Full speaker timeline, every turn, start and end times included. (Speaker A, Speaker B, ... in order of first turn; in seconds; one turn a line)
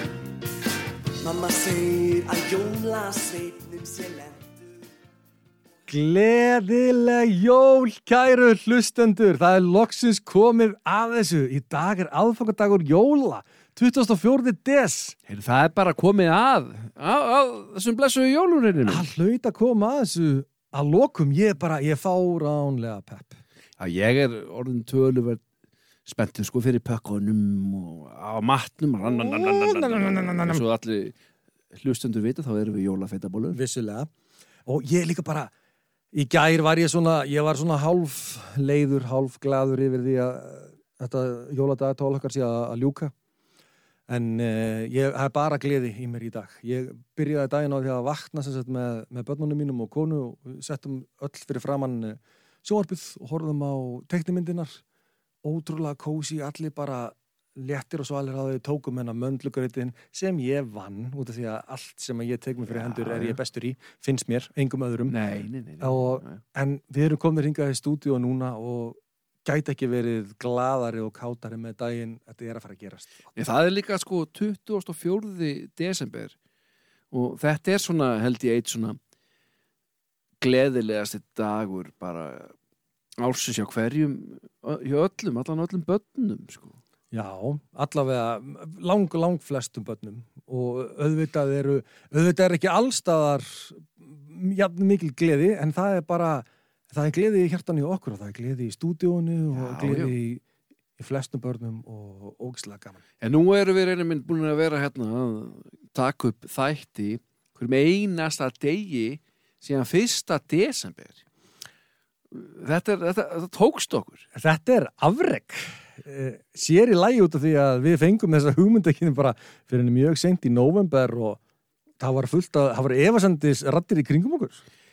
Speaker A: 1.2-4.6
Speaker B: 5.9-15.2
Speaker C: 15.3-19.1
Speaker B: 18.9-23.4
Speaker C: 23.8-25.4
Speaker C: 26.1-31.1
Speaker B: 29.0-30.6
Speaker C: 31.7-33.6
Speaker B: 33.5-34.1
Speaker B: 34.7-35.5
Speaker B: 36.1-43.1
Speaker B: 44.1-54.8
Speaker B: 55.4-65.2
Speaker C: 62.7-63.4
Speaker C: 65.1-66.4
Speaker B: 65.8-73.3
Speaker C: 73.3-76.3
Speaker C: 77.1-79.0
Speaker C: 80.4-82.5
Speaker C: 83.2-86.8
Speaker B: 87.1-100.4
Speaker C: 99.5-100.1
Speaker B: 101.0-103.0
Speaker C: 103.2-111.2
Speaker C: 112.3-114.2
Speaker B: 114.3-121.4
Speaker B: 122.0-124.6